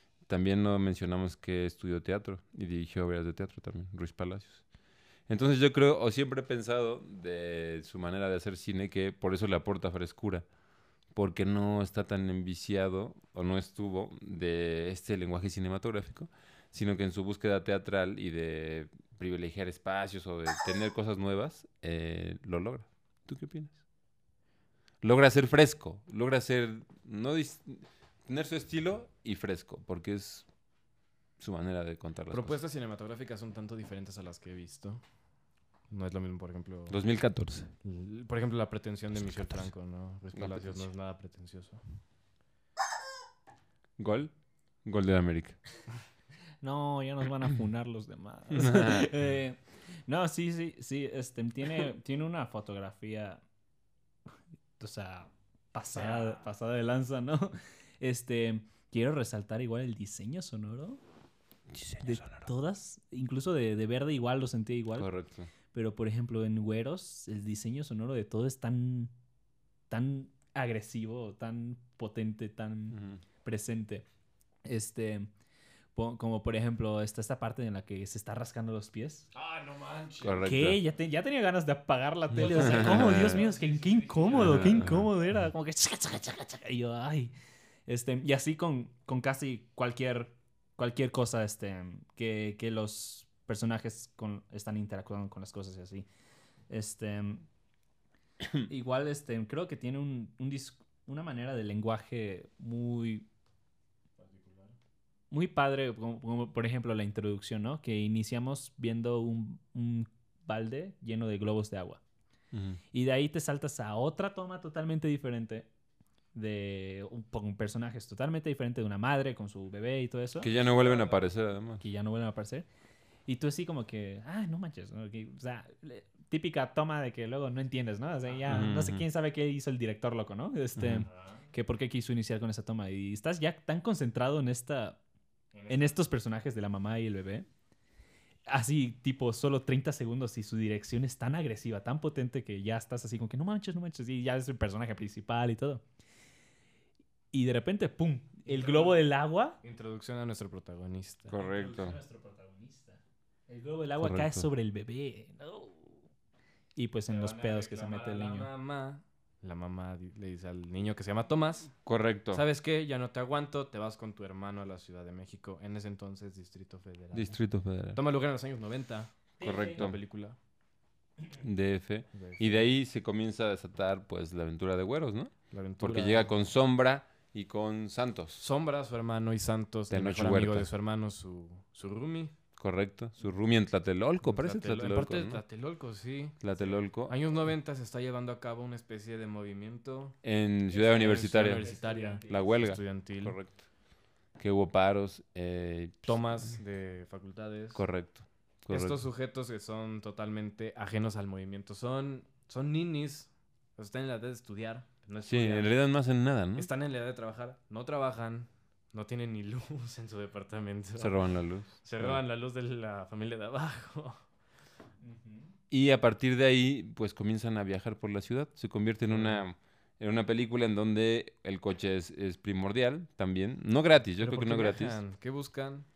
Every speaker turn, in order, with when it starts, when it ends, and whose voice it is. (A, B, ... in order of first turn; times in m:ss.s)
0:00.2-0:04.7 A
0:05.3-0:10.5 A
0:11.1-0:23.8 A
0:25.0-0:30.5 A
0:31.4-0:32.6 A
0:32.3-0:35.0 B
0:35.9-0:37.0 B
0:36.9-0:37.7 A
0:37.8-0:41.8 B
0:39.1-0:39.7 A
0:40.3-0:40.9 A
0:44.0-0:45.6 A
0:46.6-0:53.4 C
0:48.5-0:49.1 A
0:54.8-1:01.0 C
0:55.9-0:56.4 B
1:01.7-1:02.5 A
1:02.0-1:05.1 C
1:05.0-1:05.5 A
1:05.7-1:09.1 C
1:09.9-1:14.1 C
1:12.9-1:13.2 A
1:14.6-1:15.3 C
1:16.0-1:19.3 C
1:19.3-1:20.5 B
1:20.2-1:20.8 A
1:20.4-1:27.3 C
1:22.3-1:23.4 A
1:22.4-1:25.0 B
1:24.3-1:25.1 A
1:27.9-1:36.1 C
1:36.7-1:37.5 C
1:38.7-1:43.3 C
1:44.2-1:44.7 B
1:45.3-1:52.0 C
1:52.5-1:52.8 A
1:52.9-1:55.7 C
1:56.3-2:00.5 C
2:00.4-2:01.8 A
2:00.5-2:01.3 B
2:01.8-2:02.7 C
2:03.3-2:15.0 C
2:08.3-2:08.7 B
2:08.5-2:09.0 A
2:10.8-2:11.1 A
2:11.1-2:11.4 B
2:15.5-2:16.0 B
2:15.7-2:17.5 C
2:18.5-2:25.8 C
2:27.3-2:29.6 C
2:28.5-2:29.0 B
2:29.6-2:31.4 B
2:31.3-2:32.0 A
2:31.3-2:36.0 C
2:34.0-2:34.5 A
2:36.8-2:38.5 C
2:37.1-2:50.4 B
2:41.8-2:42.4 A
2:47.1-2:48.0 A
2:49.4-2:49.8 C
2:49.4-2:50.0 A
2:51.4-2:58.4 A
2:52.1-2:52.7 B
2:55.5-2:56.4 B
2:58.4-3:02.4 B
2:59.9-3:00.7 A
3:02.6-3:05.4 A
3:04.2-3:10.2 B
3:06.4-3:07.2 A
3:10.2-3:11.7 A
3:10.7-3:13.4 B
3:11.5-3:12.7 C
3:12.3-3:13.7 A
3:14.4-3:16.5 A
3:16.0-3:17.8 B
3:17.7-3:19.0 A
3:18.7-3:25.8 B
3:25.2-3:26.7 A
3:26.6-3:34.2 B
3:31.0-3:32.2 A
3:35.0-3:35.5 C
3:35.7-3:45.0 A
3:39.1-3:39.4 B
3:44.2-3:45.9 B